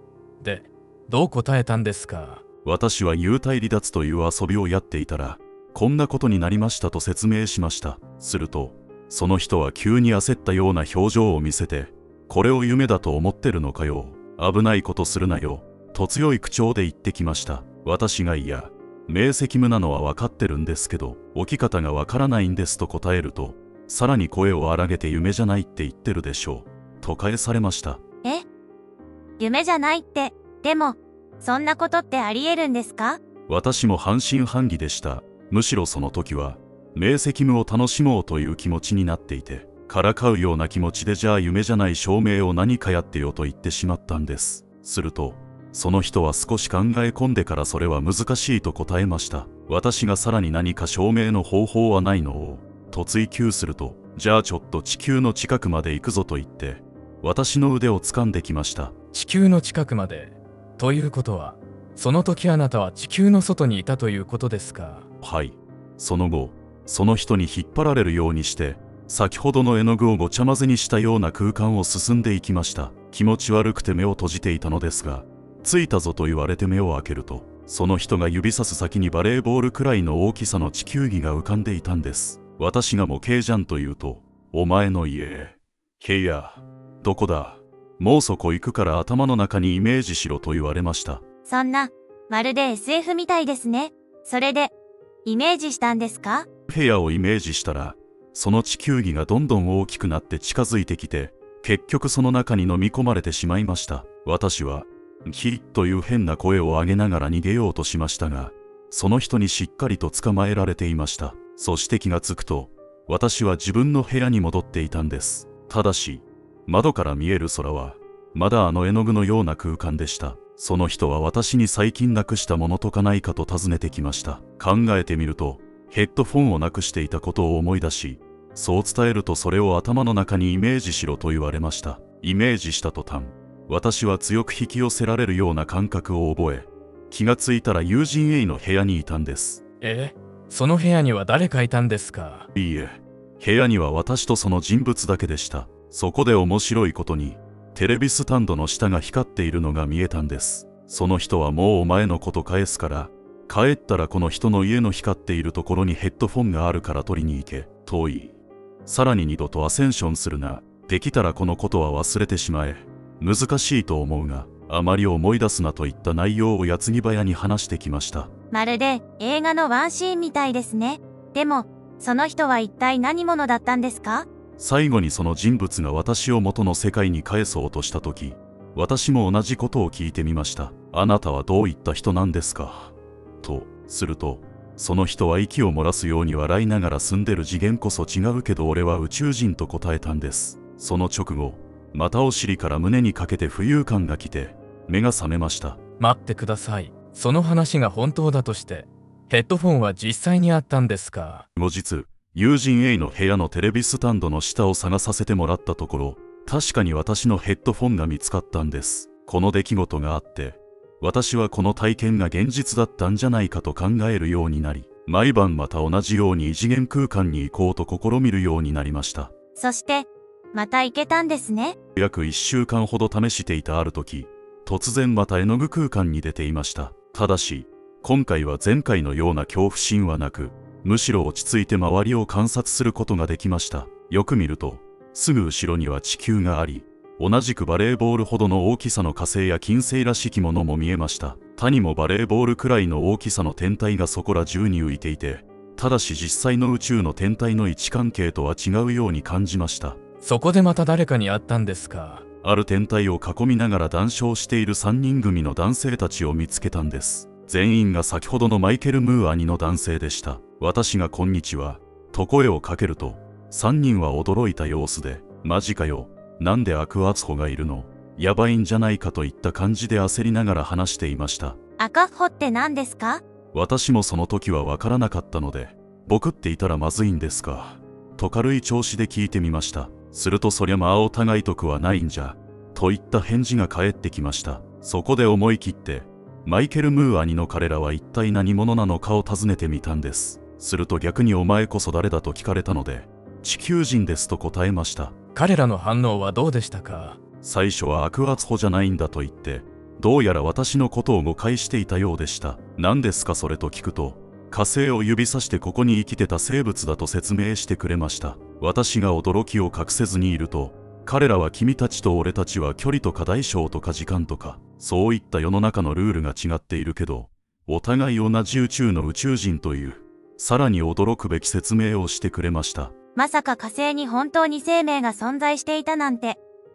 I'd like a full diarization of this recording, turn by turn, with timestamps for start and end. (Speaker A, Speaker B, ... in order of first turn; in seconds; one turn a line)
Speaker A: 0.4-2.4
Speaker B: 2.6-28.0
Speaker C: 29.4-33.2
Speaker B: 33.5-58.9
Speaker A: 59.1-65.1
Speaker B: 65.2-91.2
Speaker C: 91.5-94.7
Speaker C: 95.2-96.5
Speaker B: 96.7-139.6
Speaker A: 139.8-142.5
Speaker B: 142.5-158.3
Speaker B: 158.8-168.3
Speaker C: 168.5-174.3
Speaker B: 174.6-195.8
Speaker A: 196.0-201.5
Speaker B: 201.6-219.3
Speaker C: 219.6-221.8
Speaker B: 221.9-250.0
Speaker A: 250.2-252.2
Speaker B: 252.4-271.6
Speaker C: 271.8-273.2
Speaker B: 273.5-295.1
Speaker A: 295.3-297.2
Speaker B: 297.4-322.9
Speaker C: 323.1-326.4